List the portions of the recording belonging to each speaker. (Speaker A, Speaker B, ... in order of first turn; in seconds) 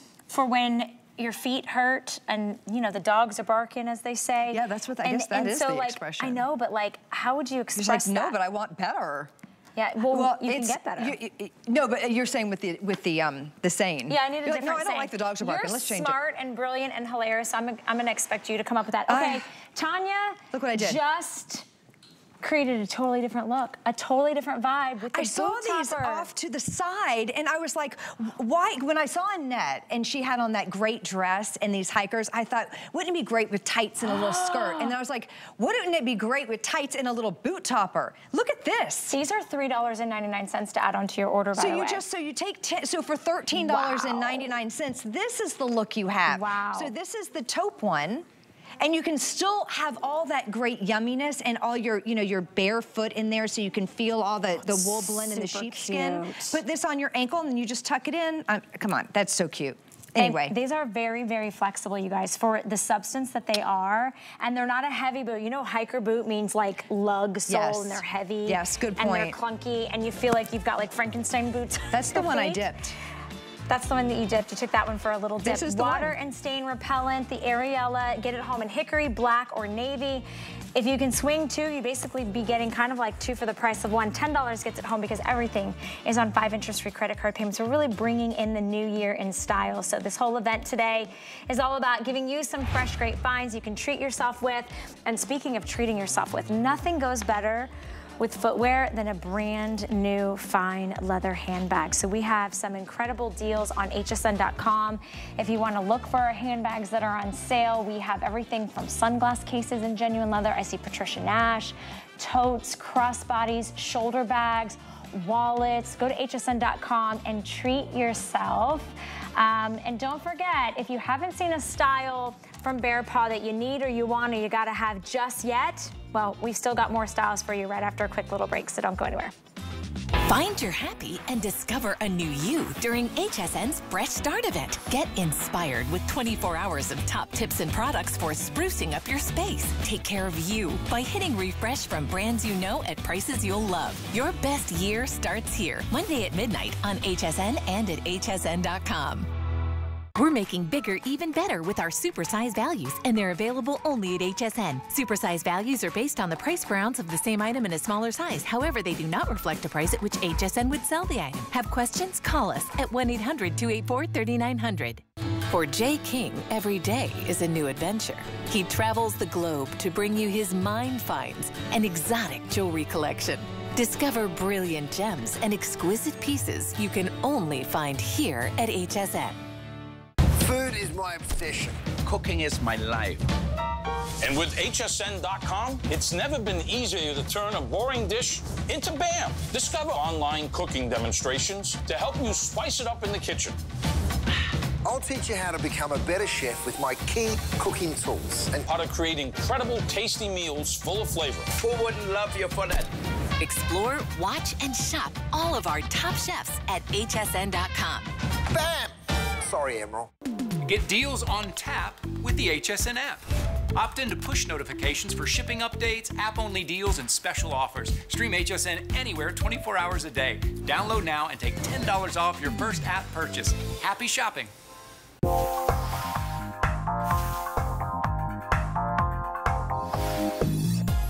Speaker A: 0.3-8.3, 9.8-11.2, 14.1-21.6, 22.4-26.3, 34.0-34.9, 39.1-42.0, 43.5-44.5, 46.3-46.9, 54.6-56.6, 60.2-72.6, 73.7-129.3
Speaker B: 4.5-6.4, 7.8-9.3, 10.1-16.1, 19.1-19.4, 20.5-21.0, 25.1-39.1, 41.5-48.2, 48.8-60.5, 67.5-69.4, 71.9-72.9, 75.4-76.1
Speaker C: 130.2-149.3, 150.1-179.3, 203.4-208.1
Speaker D: 180.3-181.9, 194.8-198.7, 208.5-210.1
Speaker E: 182.0-183.2, 201.6-202.9
Speaker F: 184.2-193.6, 198.6-201.6
Speaker G: 210.6-213.2, 213.7-224.5